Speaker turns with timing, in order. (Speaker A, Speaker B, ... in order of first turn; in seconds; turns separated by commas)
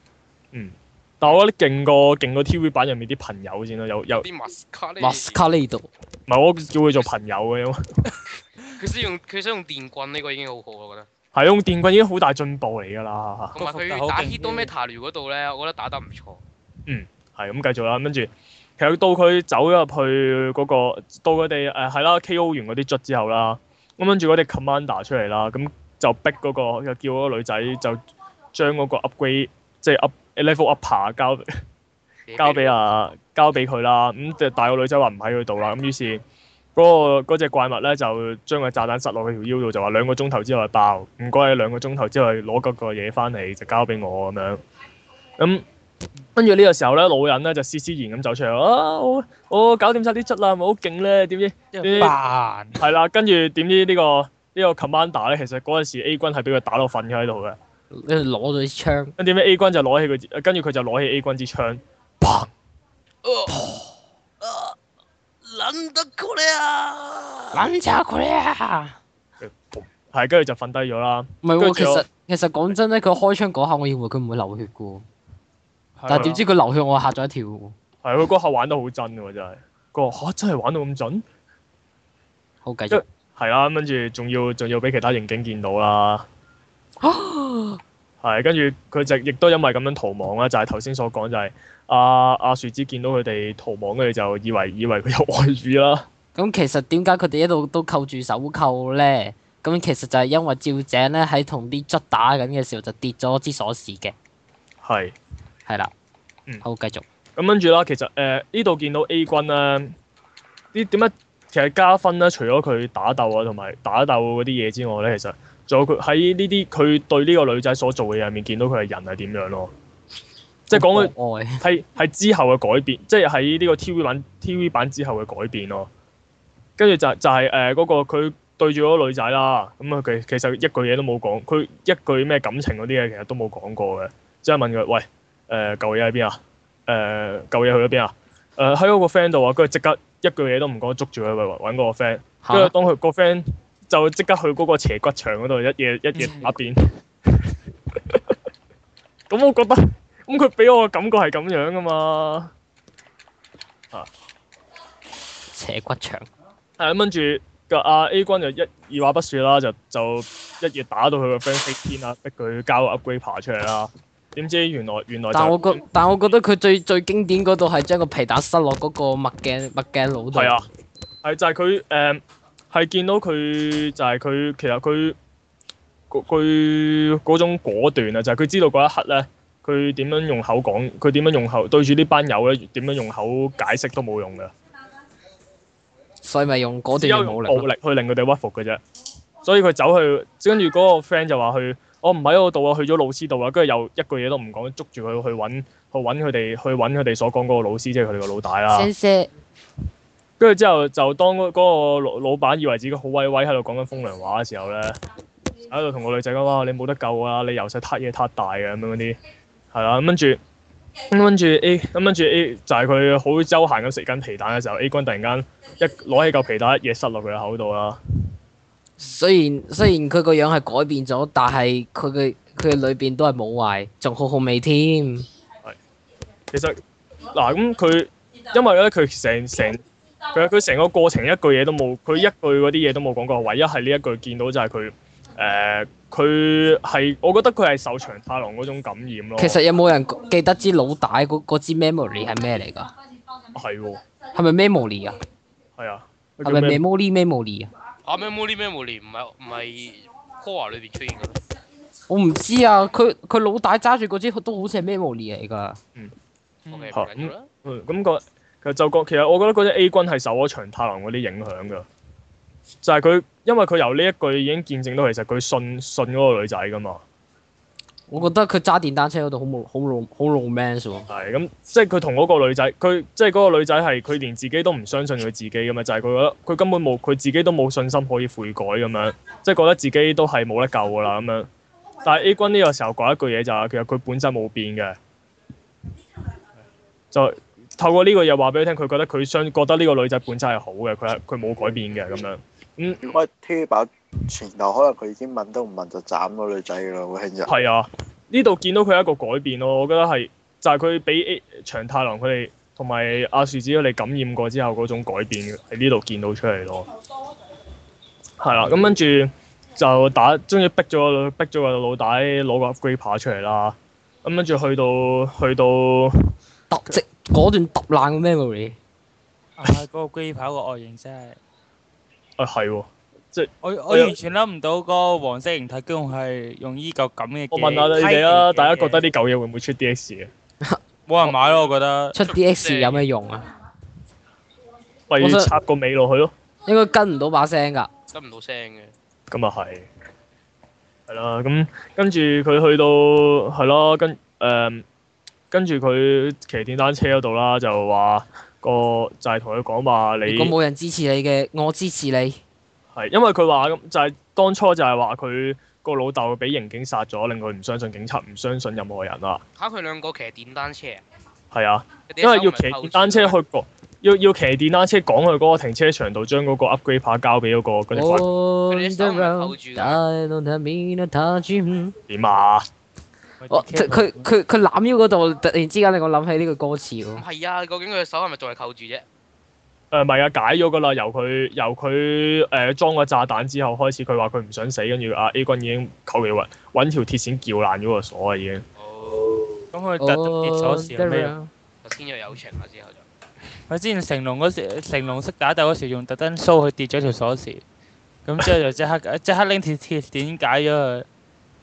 Speaker A: 0.5-4.3, Speaker B: 4.2-5.4, Speaker C: 5.0-5.9, Speaker A: 6.3-7.8, Speaker B: 8.8-11.1, Speaker A: 11.3-13.6, Speaker D: 13.6-14.7, Speaker B: 13.6-16.4, Speaker A: 16.9-28.0, Speaker A: 28.5-31.5, Speaker B: 32.3-32.8, Speaker A: 32.4-36.2, Speaker A: 36.8-44.6, Speaker A: 45.4-45.7, Speaker A: 46.4-52.2, Speaker D: 51.8-52.8, Speaker A: 52.8-57.6, Speaker C: 57.9-59.1, Speaker A: 59.2-62.5, Speaker B: 63.2-63.5, Speaker C: 63.5-63.9, Speaker B: 64.4-64.8, Speaker B: 65.4-67.7, Speaker C: 67.6-68.8, Speaker A: 69.4-72.0, Speaker C: 71.4-75.0, Speaker D: 76.0-76.4, Speaker C: 76.1-77.8, Speaker A: 76.1-76.4, Speaker A: 78.0-81.2, Speaker C: 82.6-83.0, Speaker A: 82.9-86.3, Speaker C: 87.0-87.8, Speaker A: 88.2-96.1, Speaker C: 96.3-104.2, Speaker A: 104.8-105.2, Speaker C: 105.7-105.9, Speaker C: 106.6-107.0, Speaker A: 107.4-110.0, Speaker A: 110.7-119.7, Speaker A: 120.7-125.9, Speaker C: 120.7-121.6, Speaker A: 126.8-148.4, Speaker C: 142.4-142.7, Speaker A: 149.3-152.5, Speaker C: 155.5-156.3, Speaker A: 156.8-165.8, Speaker C: 165.3-170.7, Speaker A: 170.3-170.7, Speaker A: 171.2-175.2, Speaker A: 176.1-184.5, Speaker C: 186.2-187.7, Speaker A: 186.9-188.8, Speaker A: 189.4-198.9, Speaker C: 198.7-199.3, Speaker A: 200.4-205.0, Speaker A: 205.7-209.2, Speaker A: 209.7-210.4, Speaker A: 211.1-218.0, Speaker C: 219.0-225.3, Speaker A: 226.5-226.8, Speaker A: 227.3-239.6, Speaker C: 239.4-242.9, Speaker A: 243.5-244.0, Speaker C: 244.3-245.2, Speaker A: 245.8-246.8, Speaker C: 246.4-247.7, Speaker B: 248.1-251.4, Speaker C: 252.1-255.8, Speaker D: 256.7-256.9, Speaker B: 256.7-257.5, Speaker A: 256.9-261.9, Speaker A: 262.8-267.0, Speaker C: 268.1-271.1, Speaker A: 271.1-281.5, Speaker A: 282.0-285.0, Speaker A: 287.1-293.1, Speaker E: 293.0-297.5, Speaker A: 297.5-306.9, Speaker A: 308.4-316.3, Speaker C: 316.7-318.8, Speaker D: 319.6-321.4, Speaker A: 322.4-324.1, Speaker D: 323.6-329.0, Speaker A: 327.5-330.3, Speaker D: 331.1-332.2, Speaker C: 332.1-333.5, Speaker B: 332.2-333.0, Speaker A: 335.1-336.3, Speaker C: 335.2-335.5, Speaker C: 336.7-337.9, Speaker B: 338.1-338.9, Speaker A: 339.3-339.9, Speaker A: 341.1-344.9, Speaker A: 345.5-350.5, Speaker C: 350.3-352.4, Speaker A: 352.9-359.4, Speaker B: 359.6-361.0, Speaker A: 361.5-368.3, Speaker B: 362.1-363.4, Speaker C: 367.9-372.0, Speaker B: 368.7-370.0, Speaker A: 372.1-372.7, Speaker D: 373.4-374.3, Speaker C: 373.5-377.2, Speaker B: 377.2-379.1, Speaker A: 379.9-388.6, Speaker B: 388.8-389.6, Speaker D: 389.7-391.4, Speaker C: 390.0-391.5, Speaker B: 391.8-393.1, Speaker D: 393.7-397.6, Speaker D: 398.2-401.1